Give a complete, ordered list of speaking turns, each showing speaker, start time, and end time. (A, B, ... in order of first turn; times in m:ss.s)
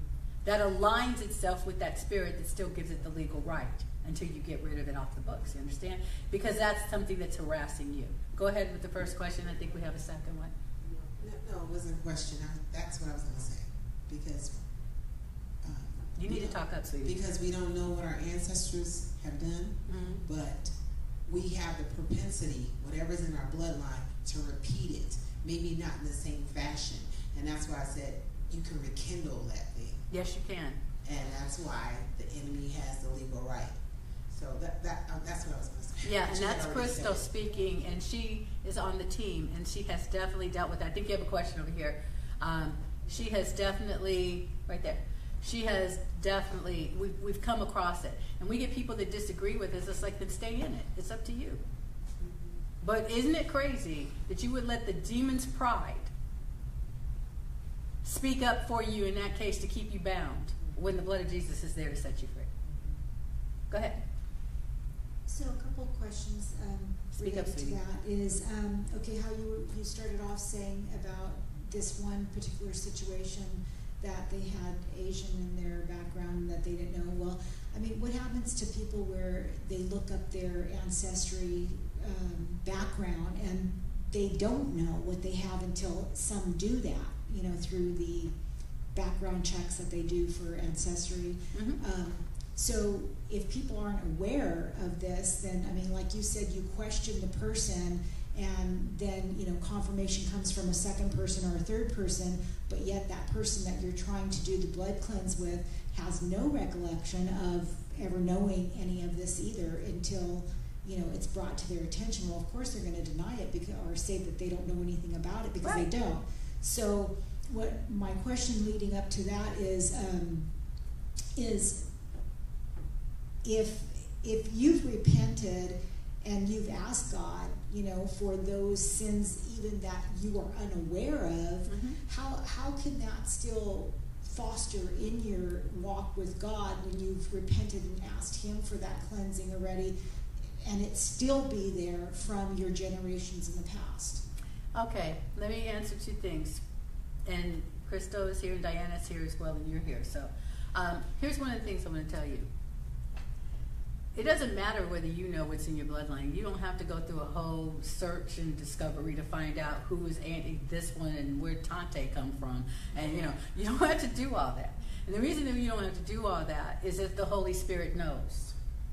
0:00.4-0:10.5 A
0:11.2-0:14.6 B
0:15.6-0:20.7 B
0:16.2-0:17.3 A
0:19.9-0:20.2 A
0:21.3-0:30.0 B
0:30.1-0:30.8 A
0:31.0-0:33.8 B
0:34.3-0:37.3 B
0:36.0-0:51.6 A
0:52.8-0:56.1 A
0:58.0-1:02.5 A
1:03.7-1:04.0 A
1:05.2-1:28.3 C
1:07.1-1:07.8 A
1:28.9-2:00.5 C
1:31.5-1:31.8 A
2:01.4-2:01.9 C
2:03.4-2:20.0 C
2:11.7-2:12.0 A
2:20.6-2:24.3 C
2:24.7-2:26.6 A
2:27.2-2:32.5 A
2:34.1-2:48.5 A